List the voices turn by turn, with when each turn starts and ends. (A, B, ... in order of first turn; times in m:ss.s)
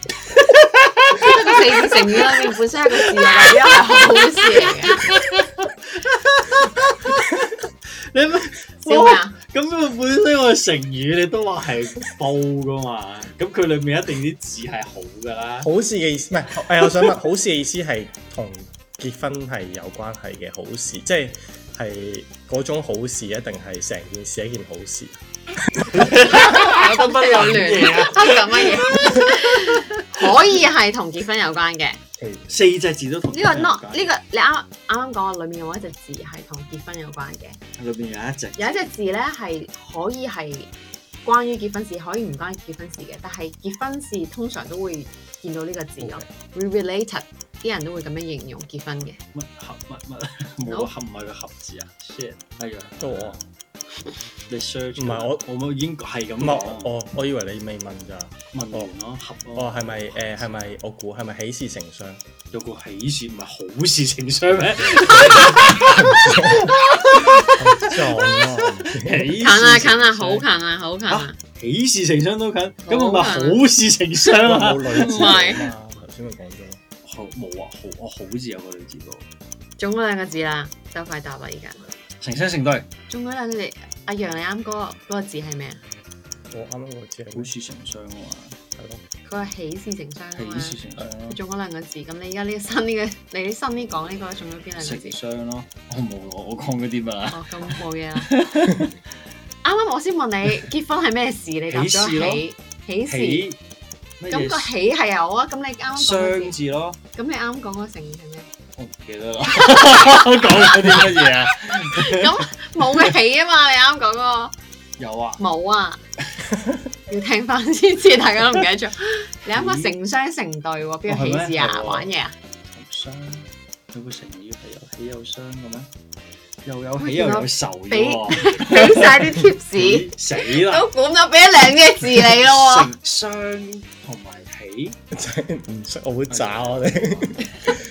0:00.3-0:15.7 A
0:01.2-0:05.1 B
0:08.8-0:09.4 B
0:15.6-0:26.1 C
0:25.9-0:30.5 A
0:26.3-0:32.0 B
0:32.2-0:34.1 A
0:33.3-0:37.6 B
0:37.8-0:38.9 A
0:38.6-0:40.7 B
0:41.2-0:49.2 B
0:46.0-0:46.3 C
0:49.3-0:53.4 A
0:53.0-0:53.4 C
0:54.5-0:56.9 A
0:55.0-0:55.4 C
0:56.4-0:58.9 C
0:58.5-1:00.7 A
0:59.6-1:02.2 C
1:02.5-1:10.5 A
1:04.7-1:06.7 C
1:05.1-1:05.7 B
1:07.5-1:09.4 C
1:09.3-1:11.4 B
1:11.1-1:15.8 A
1:12.9-1:13.6 B
1:14.3-1:16.8 C
1:14.9-1:15.7 B
1:17.0-1:19.3 A
1:19.8-1:21.9 B
1:22.2-1:22.9 A
1:23.1-1:25.8 B
1:26.5-1:27.5 C
1:27.3-1:28.6 A
1:28.8-1:29.0 C
1:29.2-1:35.2 B
1:30.3-1:31.4 A
1:34.8-1:38.9 A
1:37.3-1:38.3 B
1:39.6-1:43.5 B
1:41.7-1:42.4 A
1:43.1-1:43.6 A
1:44.2-1:44.7 A
1:44.3-1:46.6 B
1:46.0-1:47.0 A
1:47.2-1:48.5 B
1:48.8-1:53.1 A
1:49.7-1:51.2 B
1:51.8-1:54.5 B
1:55.0-1:55.4 A
1:55.4-1:56.0 B
1:56.4-1:56.8 A
1:57.1-2:02.3 B
1:59.5-2:00.0 A
2:01.1-2:02.1 A
2:02.6-2:05.9 A
2:06.6-2:10.9 A
2:07.0-2:12.9 B
2:12.4-2:15.0 A
2:15.1-2:17.8 C
2:16.3-2:17.4 A